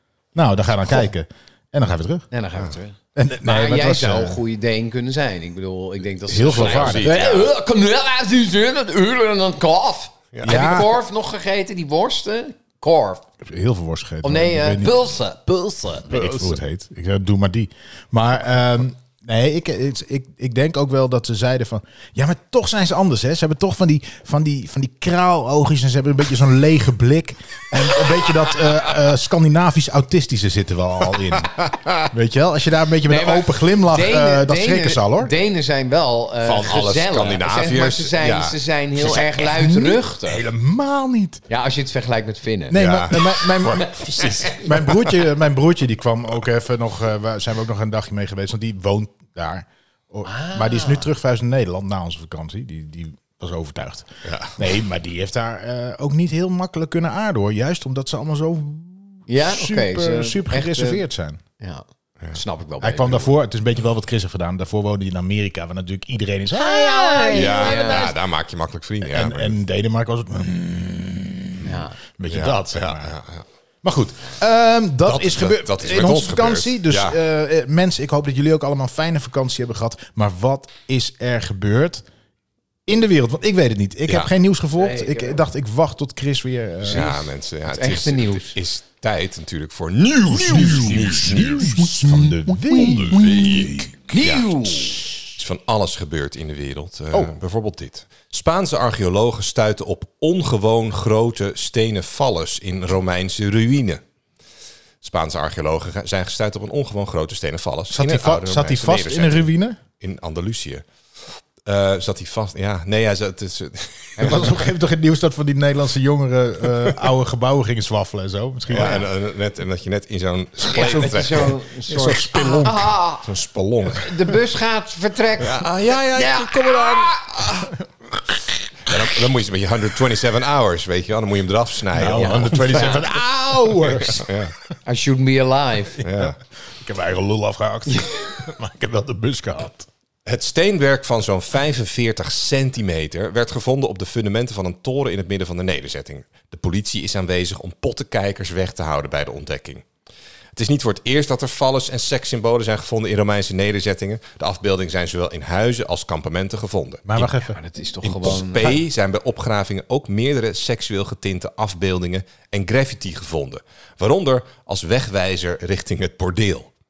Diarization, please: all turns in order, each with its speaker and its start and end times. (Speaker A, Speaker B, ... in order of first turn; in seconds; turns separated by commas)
Speaker A: 0.3-2.3, Speaker B: 2.3-13.2, Speaker A: 3.1-4.4, Speaker A: 6.3-7.1, Speaker C: 6.4-7.5, Speaker C: 10.3-10.8, Speaker A: 10.4-10.9, Speaker A: 13.4-14.9, Speaker B: 14.2-16.4, Speaker A: 16.1-31.5, Speaker C: 31.6-32.0, Speaker A: 32.1-35.3, Speaker B: 33.1-40.4, Speaker C: 36.4-39.3, Speaker A: 39.3-41.4, Speaker B: 41.5-42.8, Speaker A: 42.7-61.4, Speaker C: 42.7-45.2, Speaker B: 43.7-44.6, Speaker B: 50.2-51.1, Speaker C: 54.2-54.6, Speaker B: 59.3-61.0, Speaker B: 61.6-63.3, Speaker A: 62.8-68.2, Speaker B: 66.5-68.1, Speaker C: 67.3-69.6, Speaker A: 69.0-73.2, Speaker B: 71.6-72.0, Speaker C: 72.3-73.5, Speaker A: 73.8-82.0, Speaker C: 75.1-77.2, Speaker A: 82.9-87.1, Speaker B: 84.8-85.4, Speaker B: 86.8-88.6, Speaker C: 86.9-92.2, Speaker A: 90.3-94.1, Speaker B: 91.8-95.0, Speaker C: 92.8-104.0, Speaker C: 105.0-109.5, Speaker A: 107.9-109.8, Speaker C: 110.0-114.7, Speaker B: 114.2-114.5, Speaker A: 114.2-119.1, Speaker C: 118.7-122.7, Speaker B: 118.8-119.0, Speaker A: 120.7-122.9, Speaker B: 120.7-123.3, Speaker C: 123.2-124.4, Speaker B: 123.9-127.2, Speaker C: 125.4-127.7, Speaker C: 128.8-133.0, Speaker A: 131.9-134.3, Speaker B: 132.1-133.0, Speaker C: 133.8-134.5, Speaker B: 134.8-136.0, Speaker A: 136.0-139.9, Speaker C: 136.0-136.4, Speaker C: 140.3-149.8, Speaker C: 150.6-157.3, Speaker A: 157.1-157.6, Speaker B: 157.4-158.8, Speaker C: 158.0-166.7